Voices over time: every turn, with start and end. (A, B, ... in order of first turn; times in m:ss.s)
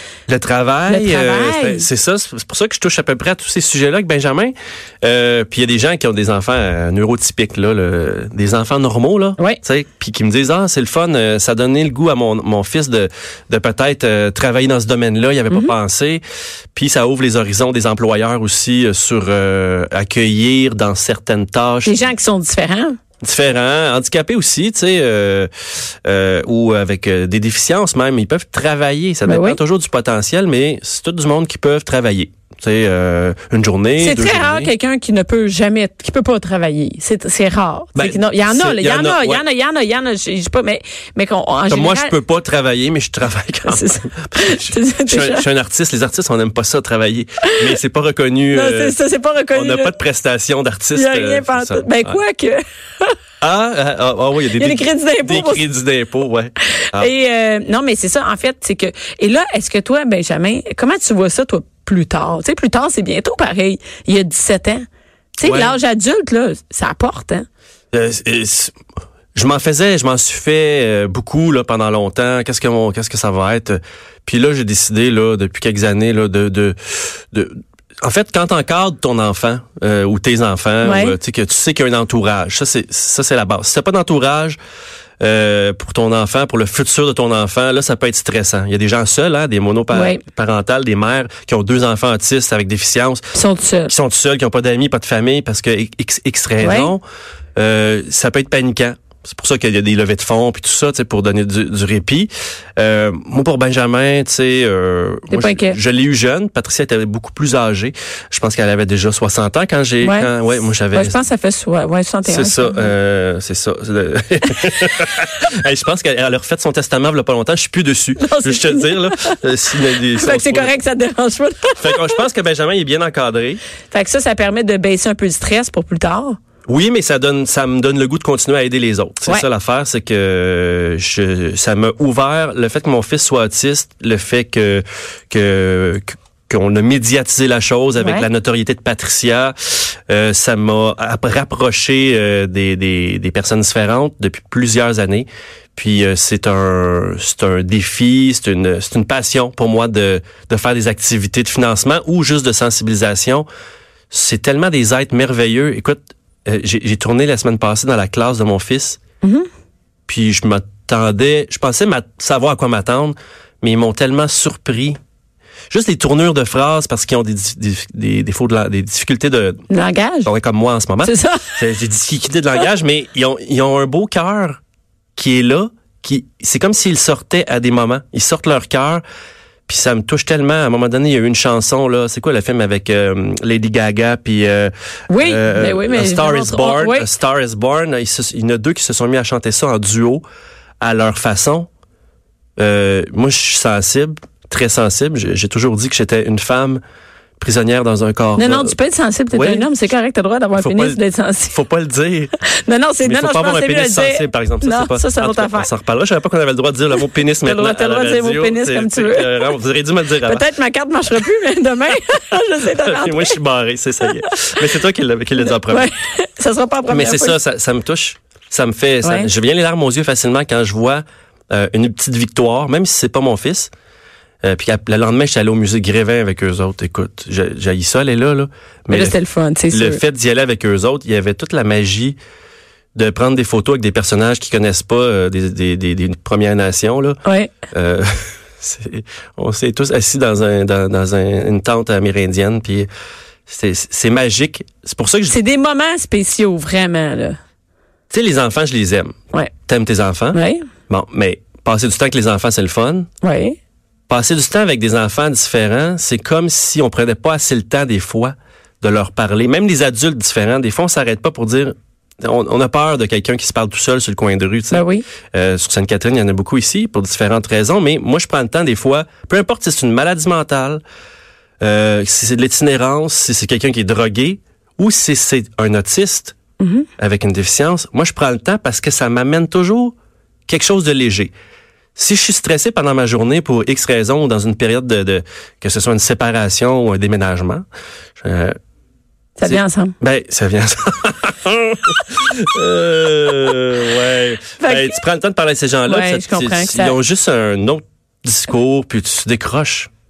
0:00.3-0:16.2 A
0:00.9-0:01.9 B
0:16.7-0:22.0 A
0:21.8-0:23.0 B
0:23.2-0:34.7 A
0:29.2-0:29.6 B
0:34.0-0:42.1 B
0:37.9-0:39.4 A
0:41.7-0:48.9 A
0:43.6-0:45.4 B
0:48.5-0:49.9 B
0:49.5-0:52.2 A
0:50.9-0:53.1 B
0:53.4-0:57.1 A
0:54.6-0:55.6 B
0:56.9-1:04.8 B
1:05.4-1:07.4 B
1:05.4-1:05.8 A
1:07.9-1:08.7 A
1:09.3-1:24.6 A
1:20.8-1:21.2 B
1:25.2-1:33.3 A
1:29.9-1:30.2 B
1:33.3-1:33.9 B
1:33.9-1:37.0 A
1:36.6-1:36.9 B
1:37.6-1:51.2 A
1:45.3-1:45.8 B
1:50.0-1:50.3 B
1:50.9-1:52.9 B
1:52.2-2:00.7 A
1:58.2-1:59.4 B
2:00.1-2:02.2 B
2:01.8-2:03.6 A
2:03.9-2:06.4 B
2:06.7-2:33.4 A
2:18.0-2:18.3 B
2:34.1-2:39.0 A
2:39.2-2:39.5 B
2:40.1-2:45.0 A
2:45.7-2:49.6 A
2:49.7-2:50.3 B
2:50.2-2:54.6 A
2:51.0-2:51.6 B
2:55.2-2:59.0 A
2:59.7-3:10.2 A
3:05.1-3:07.1 B
3:10.8-3:11.7 A
3:12.6-3:16.8 A
3:17.4-3:18.7 A
3:18.4-3:21.6 B
3:19.3-3:19.7 A
3:20.6-3:22.3 A
3:22.6-3:25.7 B
3:23.0-3:30.4 A
3:27.4-3:29.6 B
3:30.2-3:33.4 B
3:32.6-3:35.9 A
3:34.0-3:34.5 B
3:35.4-3:37.4 B
3:36.9-3:43.7 A
3:39.0-3:39.3 B
3:44.4-3:49.2 A
3:48.9-3:50.0 B
3:49.7-3:52.2 A
3:53.0-3:57.2 A
3:57.2-3:57.5 B
3:57.7-4:02.9 A
4:03.5-4:05.4 A
4:05.3-4:07.4 B
4:08.1-4:09.2 A
4:09.7-4:13.1 A
4:10.3-4:10.6 B
4:13.2-4:13.6 B
4:14.1-4:30.8 A
4:24.7-4:25.0 B
4:31.6-4:36.4 A
4:36.6-4:36.9 B
4:37.0-4:39.9 A
4:40.5-4:41.3 A
4:42.0-4:47.6 A
4:48.2-4:48.6 A
4:49.4-4:49.9 B
4:49.4-4:59.9 A
4:54.6-4:55.0 B
4:55.9-4:57.0 B